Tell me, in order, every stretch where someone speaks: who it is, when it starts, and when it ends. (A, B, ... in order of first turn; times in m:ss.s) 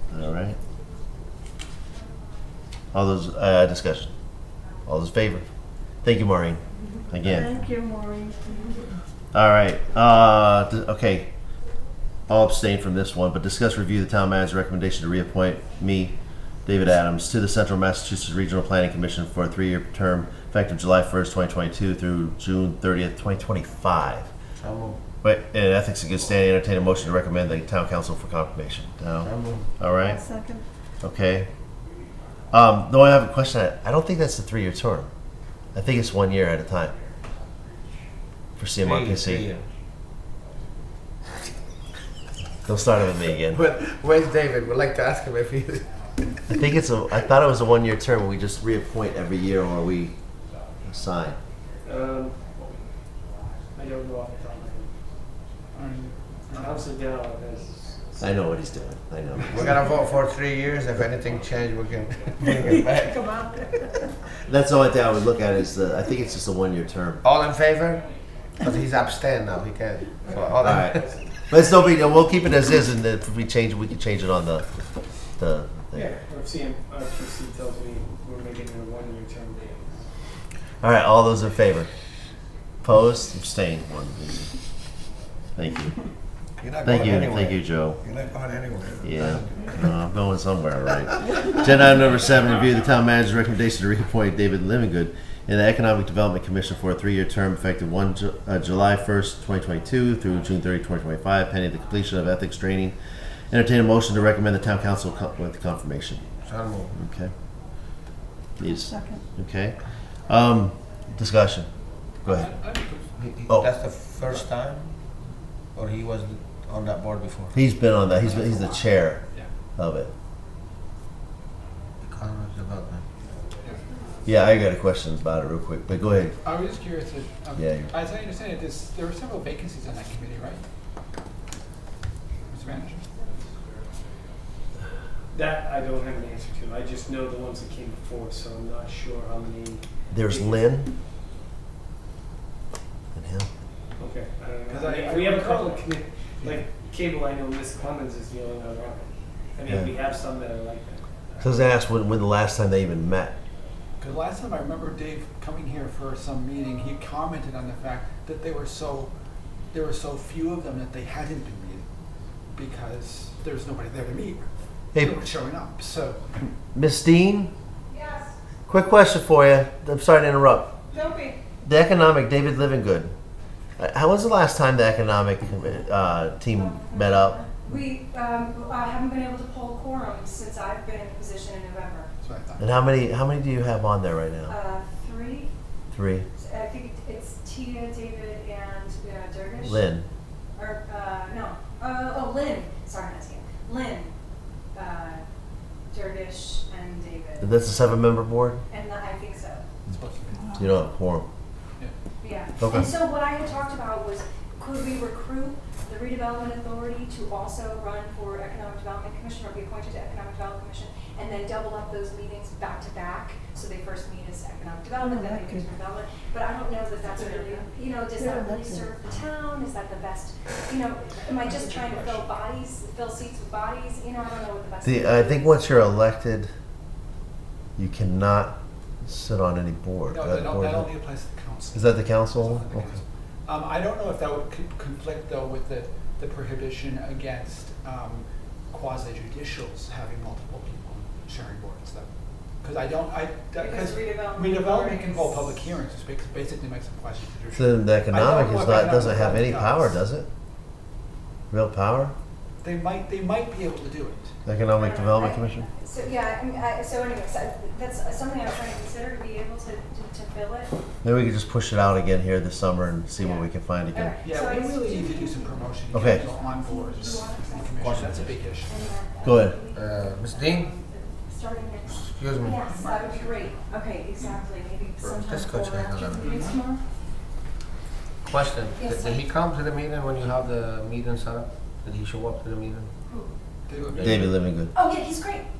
0:00.1-0:00.6 A
0:02.9-0:04.1 A
0:04.9-0:05.5 A
0:06.0-0:07.6 A
0:07.2-0:08.3 B
0:09.3-0:11.3 A
0:12.3-0:16.1 A
0:16.6-0:24.3 A
0:24.6-0:25.0 C
0:25.2-0:30.3 A
0:29.2-0:29.7 C
0:30.0-0:30.6 B
0:31.0-0:31.5 A
0:32.5-0:35.1 A
0:35.7-0:36.9 A
0:38.6-0:39.5 A
0:38.8-0:39.6 C
0:42.6-0:43.6 A
0:43.4-0:45.8 C
0:46.5-0:50.1 A
0:50.8-0:51.4 A
0:51.8-0:52.5 D
0:53.7-0:54.9 D
0:55.7-0:56.9 E
0:56.5-0:58.3 D
0:58.2-0:59.8 A
0:59.5-1:03.2 C
1:04.4-1:07.2 A
1:07.2-1:08.0 C
1:08.6-1:11.1 C
1:10.4-1:11.1 D
1:10.6-1:14.7 A
1:15.4-1:16.1 A
1:15.9-1:19.8 D
1:20.8-1:21.9 A
1:22.8-1:24.5 A
1:25.6-1:25.9 A
1:26.6-1:29.7 C
1:26.8-1:28.0 A
1:29.0-1:46.2 A
1:46.4-1:46.9 C
1:46.9-1:47.3 A
1:48.6-1:51.7 A
1:48.8-1:49.2 B
1:52.2-1:52.5 A
1:52.2-1:53.2 E
1:53.3-1:54.9 C
1:55.7-1:57.6 C
1:57.5-1:59.2 A
1:59.8-2:00.1 A
2:02.0-2:03.0 C
2:04.2-2:06.4 A
2:06.4-2:10.6 E
2:07.6-2:07.9 A
2:12.5-2:13.1 E
2:15.3-2:20.6 D
2:20.1-2:20.9 A
2:23.1-2:23.5 A
2:24.0-2:31.4 D
2:24.7-2:25.9 E
2:29.7-2:29.9 A
2:31.4-2:33.3 A
2:34.0-2:39.1 E
2:39.7-2:41.8 E
2:42.5-2:46.2 E
2:46.7-2:47.5 A
2:47.9-2:48.4 F
2:48.7-2:50.7 A
2:50.9-2:51.4 F
2:51.6-2:53.1 A
2:53.8-2:57.5 A
2:56.5-3:02.1 F
3:02.2-3:02.7 E
3:02.6-3:04.6 A
3:04.5-3:05.5 F
3:05.9-3:06.2 A
3:06.4-3:09.9 F
3:09.6-3:10.0 A
3:10.6-3:14.1 F
3:14.7-3:15.2 F
3:15.9-3:17.6 F
3:17.4-3:18.6 A
3:18.7-3:19.6 F
3:19.9-3:20.6 E
3:20.6-3:21.3 A
3:22.2-3:45.9 F
3:22.6-3:22.9 A
3:35.0-3:35.7 B
3:38.2-3:38.9 B
3:41.4-3:42.3 E
3:44.8-3:46.5 A
3:47.8-3:50.9 A
3:50.1-4:02.1 E
3:51.7-3:53.0 A
4:02.6-4:09.9 E
4:03.6-4:05.8 F
4:07.6-4:10.3 A
4:11.5-4:12.1 A
4:12.6-4:14.3 E
4:14.5-4:15.7 A
4:14.7-4:20.7 F
4:21.0-4:24.2 A
4:23.2-4:27.9 F
4:24.2-4:28.8 E
4:25.9-4:26.2 A
4:27.8-4:28.3 C
4:28.7-4:36.8 F
4:29.2-4:29.6 A
4:29.7-4:30.7 C
4:32.0-4:32.6 C
4:32.6-4:34.4 E
4:35.3-4:36.4 C
4:36.2-4:36.6 E
4:38.3-4:42.9 C
4:38.8-4:39.2 F
4:43.7-4:44.3 E
4:44.0-4:44.7 A
4:44.7-4:45.5 F